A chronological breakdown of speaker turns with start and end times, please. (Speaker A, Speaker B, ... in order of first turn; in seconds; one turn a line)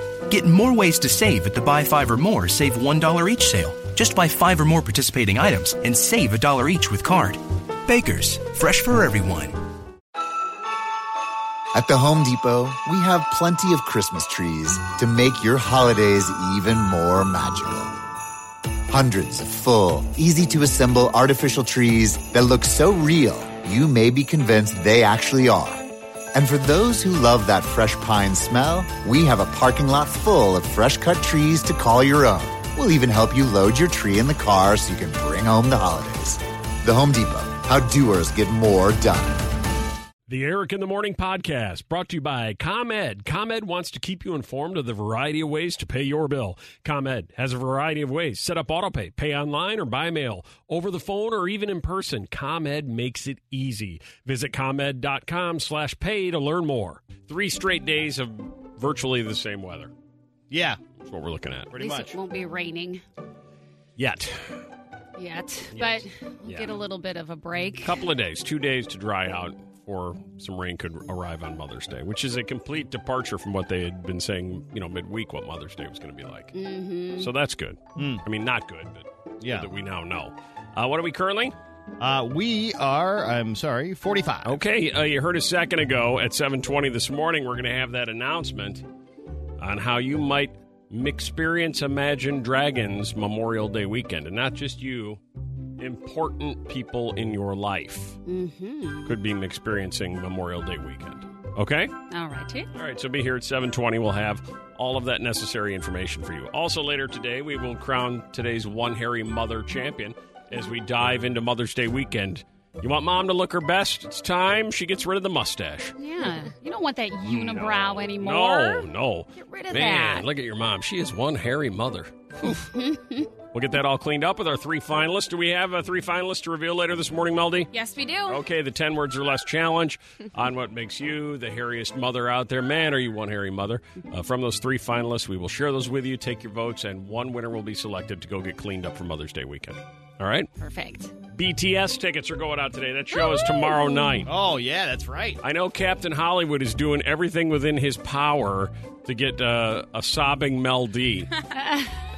Speaker A: 0.3-9.6
Speaker B: 11.7-17.9
Speaker B: 18.9-39.5
Speaker C: 40.3-59.9
Speaker D: 60.5-60.8
Speaker C: 61.0-61.7
Speaker D: 61.7-62.1
Speaker E: 61.8-63.0
Speaker C: 64.0-64.6
Speaker E: 65.2-68.0
Speaker C: 65.7-66.7
Speaker C: 67.8-76.5
Speaker E: 76.5-77.3
Speaker C: 77.2-81.5
Speaker D: 78.0-78.2
Speaker D: 79.4-79.7
Speaker D: 82.0-84.6
Speaker C: 84.5-88.8
Speaker C: 89.6-95.2
Speaker C: 95.8-98.2
Speaker E: 98.3-99.2
Speaker C: 99.1-101.9
Speaker E: 102.1-102.7
Speaker C: 102.7-116.0
Speaker E: 116.0-120.2
Speaker C: 117.3-122.7
Speaker E: 122.4-123.3
Speaker C: 123.5-127.7
Speaker E: 127.7-128.4
Speaker C: 128.3-140.5
Speaker E: 140.6-141.1
Speaker C: 141.3-144.3
Speaker E: 143.1-144.2
Speaker D: 144.2-145.4
Speaker C: 145.4-151.3
Speaker E: 151.6-151.9